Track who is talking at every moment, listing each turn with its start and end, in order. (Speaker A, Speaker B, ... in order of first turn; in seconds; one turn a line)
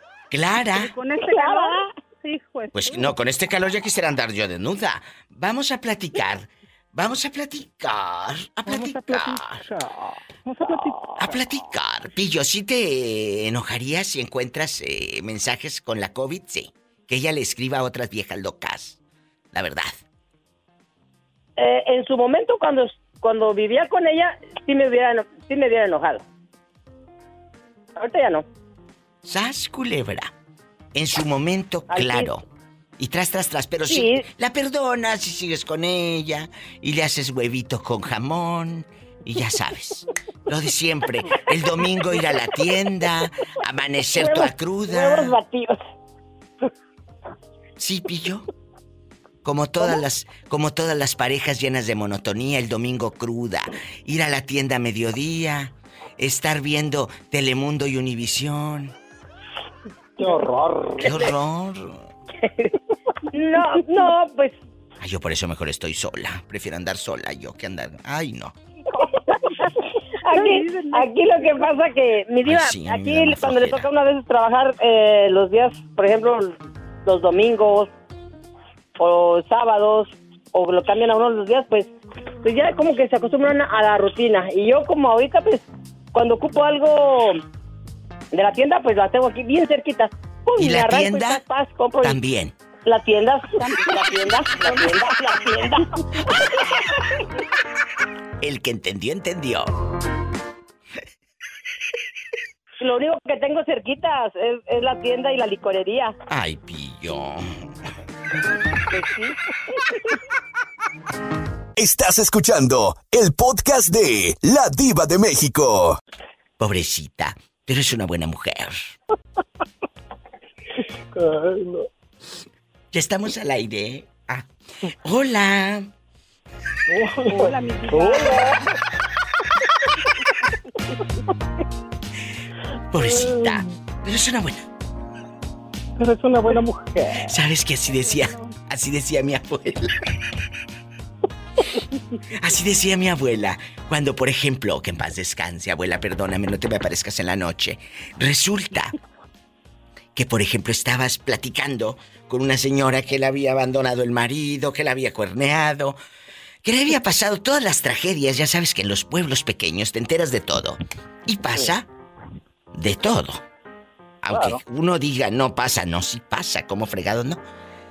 Speaker A: 0.3-0.9
Speaker B: 0.7-3.1
Speaker C: 1.2-1.9
Speaker A: 2.7-9.7
Speaker B: 8.7-9.3
Speaker B: 10.5-11.1
Speaker A: 11.2-19.0
Speaker A: 19.5-20.0
Speaker C: 21.6-26.2
Speaker C: 27.9-28.4
Speaker A: 29.2-30.3
Speaker A: 30.9-32.4
Speaker C: 31.9-32.3
Speaker A: 33.0-45.4
Speaker C: 33.9-34.2
Speaker C: 44.1-45.8
Speaker A: 47.8-48.5
Speaker A: 49.4-58.9
Speaker D: 60.2-61.1
Speaker A: 61.0-62.1
Speaker C: 62.4-62.7
Speaker C: 63.3-64.6
Speaker A: 65.0-68.5
Speaker C: 68.9-69.7
Speaker B: 70.3-71.7
Speaker C: 70.3-77.9
Speaker A: 72.4-73.9
Speaker C: 79.0-87.4
Speaker C: 88.3-92.2
Speaker A: 90.6-91.4
Speaker A: 92.0-92.5
Speaker C: 92.8-95.8
Speaker B: 93.6-94.9
Speaker A: 98.4-99.7
Speaker C: 102.8-106.1
Speaker A: 106.3-107.6
Speaker C: 108.9-109.3
Speaker E: 111.8-116.0
Speaker A: 116.6-118.9
Speaker D: 121.1-121.8
Speaker A: 122.9-124.5
Speaker A: 125.0-125.9
Speaker D: 126.9-128.6
Speaker B: 127.2-128.6
Speaker A: 132.9-134.6
Speaker D: 136.0-137.3
Speaker A: 137.2-139.9
Speaker B: 137.9-138.4
Speaker A: 142.3-148.9
Speaker A: 150.1-156.0
Speaker A: 156.6-161.9
Speaker A: 162.7-163.4
Speaker A: 164.2-167.4
Speaker D: 164.3-164.6